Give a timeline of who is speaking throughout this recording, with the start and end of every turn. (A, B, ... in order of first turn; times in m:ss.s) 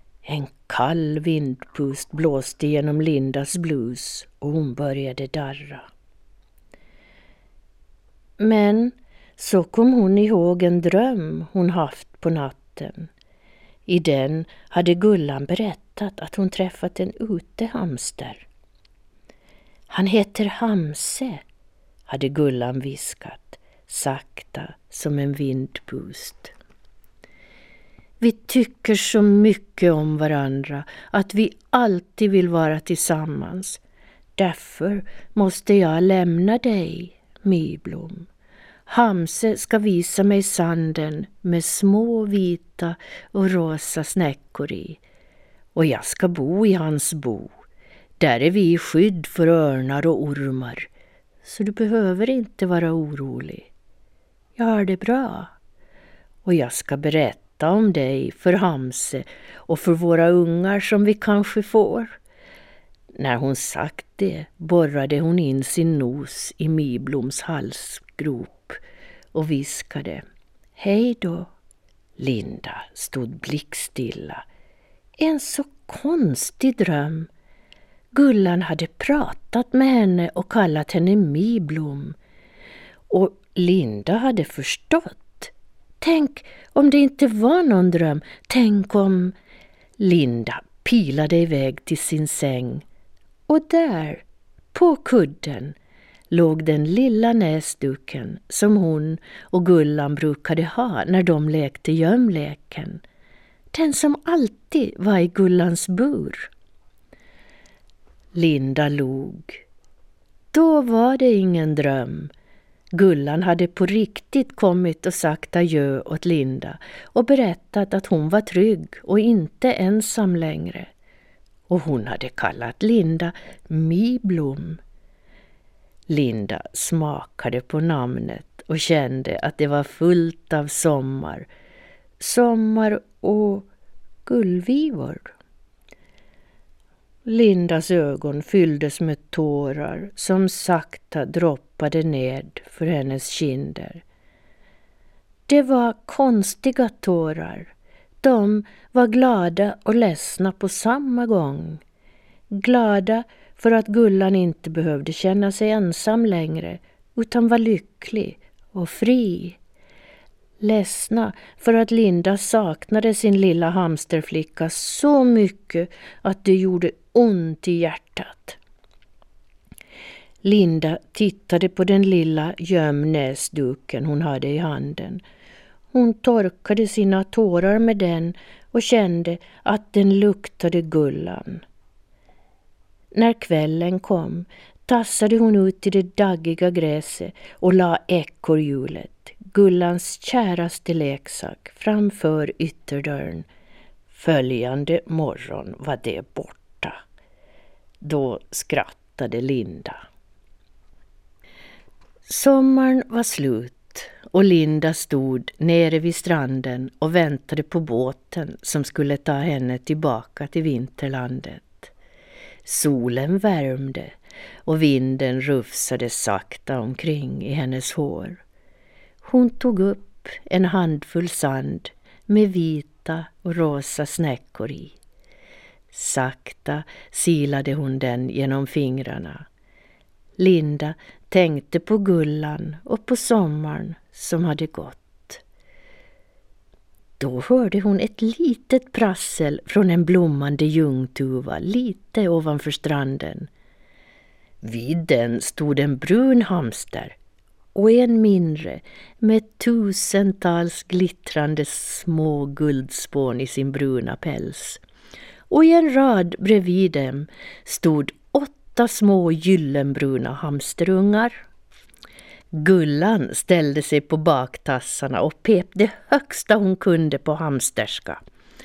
0:00.2-0:05.9 A
0:08.4-0:13.1 A
0:13.9-0:18.5 A
0:19.9-0:21.4 A
0:22.1-0:26.5 A
0:28.2-0:33.8 A
0:34.4-0:38.3 A
0:38.9-0:45.0 A
0:45.7-0:47.5 A
0:48.2-0:50.9 A
0:51.4-0:53.7 A
0:54.6-0:55.5 A
0:56.4-1:02.2 A
1:03.1-1:08.8 A
1:09.3-1:10.2 A
1:10.8-1:11.5 A
1:12.2-1:14.4 A
1:15.2-1:17.3 A
1:18.1-1:22.2 A
1:23.1-1:29.3 A
1:30.0-1:32.8 A
1:33.5-1:35.8 A
1:36.3-1:43.0 A
1:43.7-1:46.5 A
1:48.3-1:49.6 A
1:50.5-1:52.3 A
1:52.9-2:00.9 A
2:01.7-2:04.8 A
2:06.1-2:11.5 A
2:12.2-2:13.7 A
2:14.2-2:15.3 A
2:17.2-2:24.0 A
2:25.5-2:31.8 A
2:32.5-2:39.6 A
2:40.6-2:48.6 A
2:50.4-2:55.2 A
2:55.9-3:01.6 A
3:03.1-3:13.4 A
3:14.1-3:17.0 A
3:18.0-3:20.0 A
3:22.2-3:31.9 A
3:32.6-3:38.4 A
3:39.2-3:45.0 A
3:45.9-3:49.4 A
3:50.4-3:55.4 A
3:57.2-4:03.5 A
4:04.6-4:07.1 A
4:07.7-4:14.8 A
4:15.5-4:21.4 A
4:22.6-4:28.2 A